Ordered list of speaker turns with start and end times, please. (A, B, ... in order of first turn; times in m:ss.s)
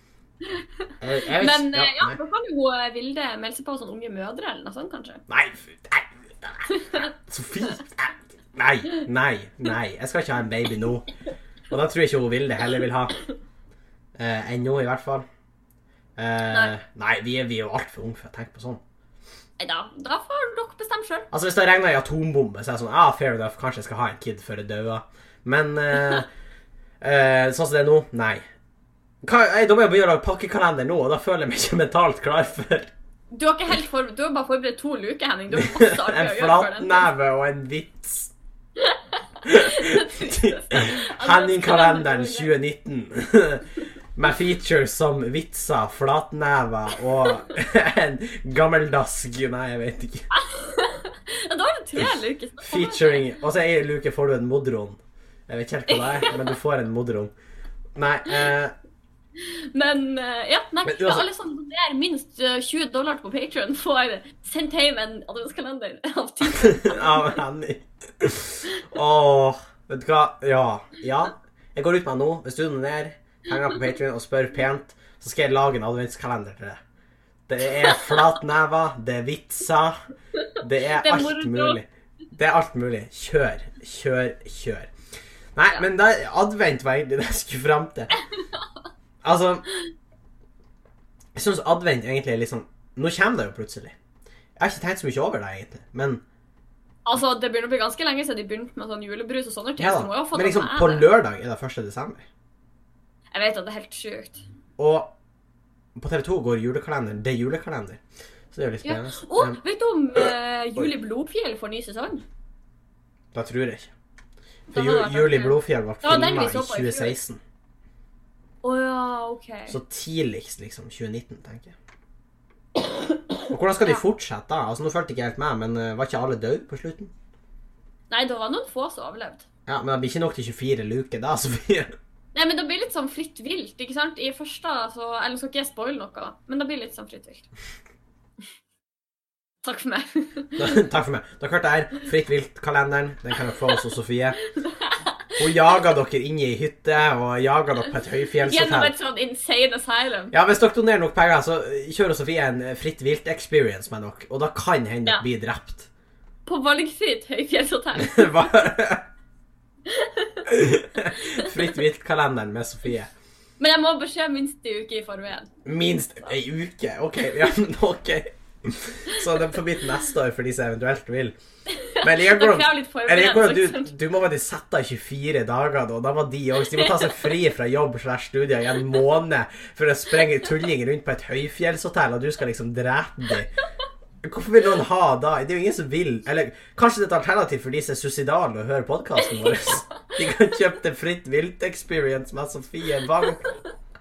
0:00.4-0:05.2 A
0:01.0-0:02.2 B
0:05.3-0:11.1 B
0:06.7-0:07.0 A
0:11.7-0:13.2 B
0:14.2-0:15.2 B
0:16.2-0:18.8 B
0:16.5-0:16.7 A
0:19.6-0:21.3 A
0:21.3-0:26.3 B
0:27.0-0:28.4 B
0:29.2-0:32.9 B
0:33.3-0:37.1 A
0:35.5-0:38.3 B
0:38.8-0:42.5 A
0:39.4-0:50.3 B
0:50.3-0:53.3 A
0:52.6-0:57.3 B
0:55.9-0:56.6 A
0:57.9-0:58.7 B
0:59.4-1:07.4 A
1:00.8-1:01.2 B
1:06.5-1:16.8 B
1:17.5-1:20.0 B
1:17.8-1:18.2 A
1:20.6-1:24.9 B
1:21.0-1:21.8 A
1:25.5-1:28.2 B
1:29.2-1:29.7 B
1:31.4-1:33.9 B
1:34.6-1:36.2 B
1:37.0-1:41.1 A
1:39.8-1:42.2 B
1:43.3-1:44.4 A
1:44.8-1:45.1 B
1:46.0-1:48.0 B
1:48.5-1:49.6 B
1:48.8-1:52.2 A
1:53.3-1:53.9 B
1:54.7-1:57.2 A
1:54.7-1:57.4 B
1:58.6-1:59.8 A
1:59.7-2:01.7 B
2:02.8-2:04.0 A
2:03.5-2:07.1 B
2:08.1-2:09.4 A
2:09.7-2:11.9 B
2:12.3-2:17.5 A
2:19.6-2:20.7 A
2:20.6-2:24.4 B
2:23.4-2:23.8 A
2:24.5-2:25.8 A
2:25.4-2:28.9 B
2:28.4-2:30.3 A
2:30.3-2:35.9 B
2:36.4-2:38.5 A
2:38.0-2:39.0 B
2:39.8-2:40.5 A
2:40.4-2:43.1 B
2:41.2-2:41.7 A
2:43.6-2:45.5 A
2:45.6-2:51.4 B
2:51.7-2:53.9 A
2:52.0-3:03.5 B
2:56.6-2:57.3 A
3:04.2-3:13.5 B
3:09.2-3:09.8 A